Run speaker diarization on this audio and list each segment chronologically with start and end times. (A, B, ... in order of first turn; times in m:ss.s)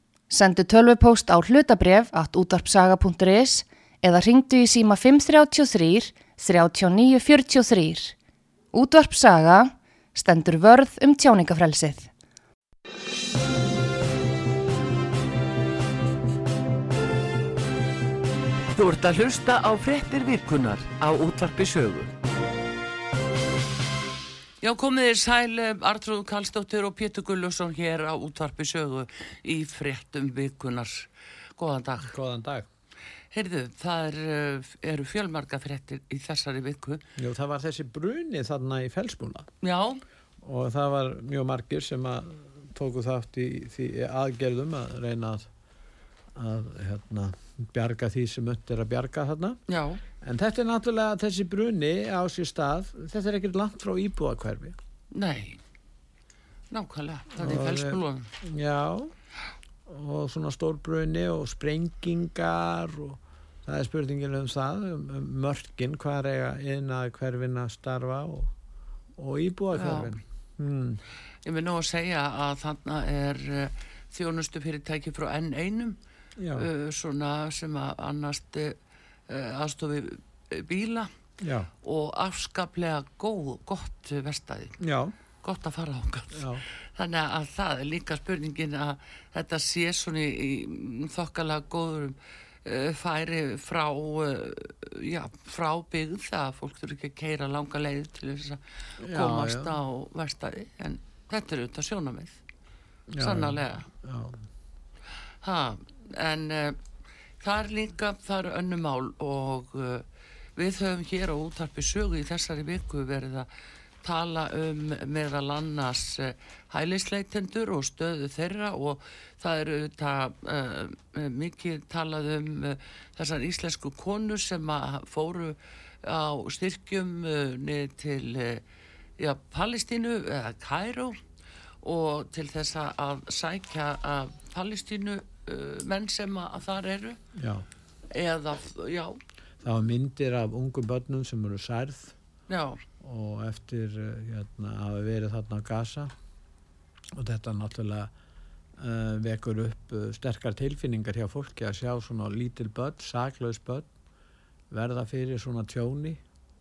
0:00.3-0:08.1 A
0:08.7-0:12.1 A
0:18.8-0:22.1 B
0:24.6-0:32.1 B
0:32.0-0:32.7 C
0:33.3-0:37.0 B
0:37.2-0:39.5 C
0:39.6-0:40.0 B
0:40.4-0:45.5 C
0:46.3-0:49.6 C
0:49.7-0:50.0 B
0:50.2-0:54.8 C
0:55.1-0:55.6 B
0:56.7-0:58.3 B
0:57.4-0:59.1 C
0:59.8-1:08.5 C
1:09.2-1:11.0 C
1:09.7-1:10.1 B
1:11.4-1:16.0 B
1:16.4-1:16.7 C
1:16.5-1:21.1 B
1:21.4-1:21.7 C
1:21.8-1:24.8 B
1:24.8-1:25.1 C
1:25.4-1:42.4 B
1:26.3-1:26.6 C
1:39.0-1:39.7 C
1:43.1-1:44.4 C
1:43.2-1:43.9 B
1:45.4-1:46.8 B
1:47.4-1:50.0 B
1:50.6-1:53.5 B
1:54.0-2:08.6 B
2:09.2-2:11.2 B
2:11.8-2:17.2 B
2:17.3-2:17.6 C
2:18.1-2:19.2 B
2:19.6-2:22.1 C
2:22.5-2:22.8 B
2:23.0-2:26.1 C
2:27.2-2:28.1 C
2:28.8-2:33.9 C
2:34.7-2:36.2 C